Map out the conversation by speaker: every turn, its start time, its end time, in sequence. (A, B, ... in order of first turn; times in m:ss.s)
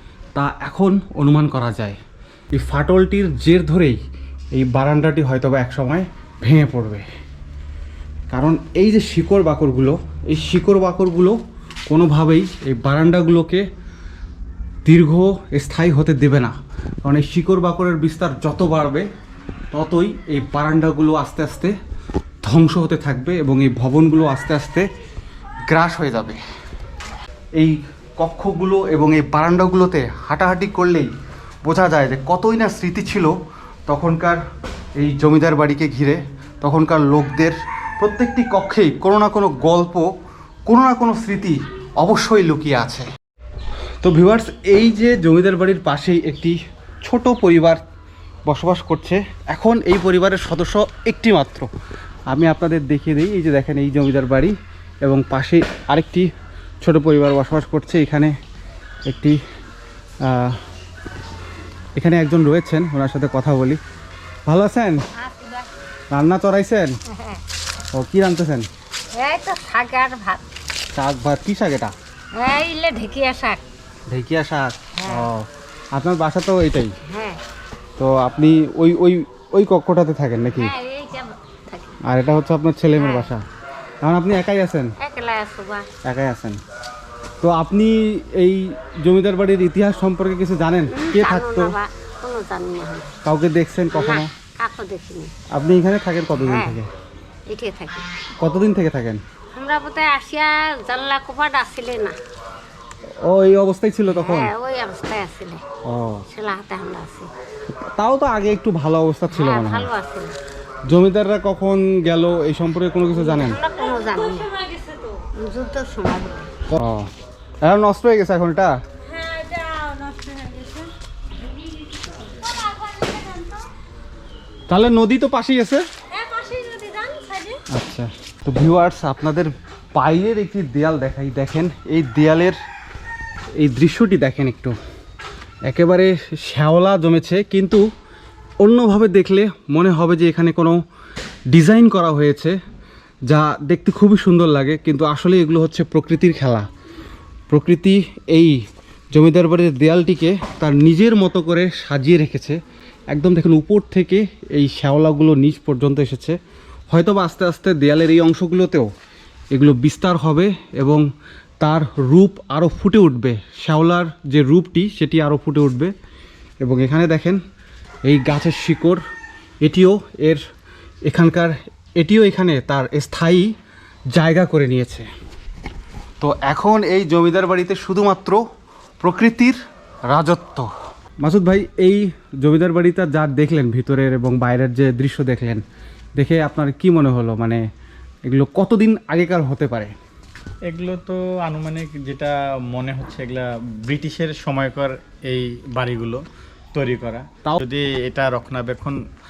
0:00.4-0:02.0 A
0:02.5-0:04.0 A
0:04.5-0:07.0 A
0:08.3-0:13.7 A
0:14.8-0:19.1 A
0:19.7-0:21.8 A
0:22.4-0:24.9 A
0:25.7-0:26.4 A
0:27.6-0:31.1 A
0:31.6-0:33.4 A
0:33.9-0:34.4 A
0:35.0-0:40.1 A
0:40.7-0:43.1 A
0:44.0-0:47.8 A
0:48.5-0:51.7 A
0:52.3-0:56.3 A
0:56.8-0:58.3 A
0:59.1-0:59.4 A
1:00.2-1:00.6 A
1:02.0-1:03.8 A
1:04.5-1:05.0 A
1:05.2-1:05.6 B
1:06.1-1:06.9 A
1:07.1-1:07.4 B
1:08.0-1:08.7 A
1:09.2-1:10.4 B
1:10.9-1:11.9 A
1:12.4-1:13.6 B
1:14.1-1:16.9 A
1:15.0-1:15.3 B
1:17.0-1:17.4 B
1:18.0-1:20.7 A
1:20.6-1:22.0 B
1:22.0-1:23.4 A
1:23.0-1:23.3 B
1:24.0-1:24.9 A
1:25.0-1:25.9 B
1:26.0-1:26.6 A
1:27.4-1:31.7 A
1:30.9-1:33.1 B
1:33.2-1:34.3 A
1:33.9-1:35.3 B
1:35.5-1:36.9 A
1:36.4-1:36.8 B
1:37.5-1:38.0 B
1:38.4-1:39.2 A
1:39.6-1:42.2 B
1:43.2-1:44.5 A
1:44.1-1:45.6 B
1:45.8-1:46.3 A
1:46.3-1:47.3 B
1:47.7-1:49.9 A
1:49.3-1:50.3 B
1:50.9-1:53.6 A
1:53.1-1:56.5 B
1:56.7-1:57.1 A
1:57.6-1:58.8 A
1:59.1-2:00.9 B
2:02.3-2:03.6 B
2:04.7-2:05.8 A
2:06.1-2:07.6 B
2:07.7-2:12.6 A
2:13.6-2:14.8 A
2:15.7-2:17.8 A
2:18.6-2:20.8 A
2:21.5-2:22.6 A
2:23.3-2:26.7 A
2:27.5-2:28.6 A
2:29.1-2:32.6 A
2:33.1-2:36.4 A
2:36.9-2:38.9 A
2:39.5-2:41.0 A
2:41.6-2:45.9 A
2:46.6-2:47.4 A
2:48.1-2:49.0 A
2:49.6-2:50.4 A
2:51.1-2:53.5 A
2:54.1-2:55.1 A
2:56.2-2:58.4 A
2:59.0-2:59.6 A
3:00.1-3:00.7 A
3:01.2-3:05.6 A
3:06.2-3:07.6 A
3:08.3-3:09.9 A
3:10.7-3:16.2 C
3:16.7-3:19.0 C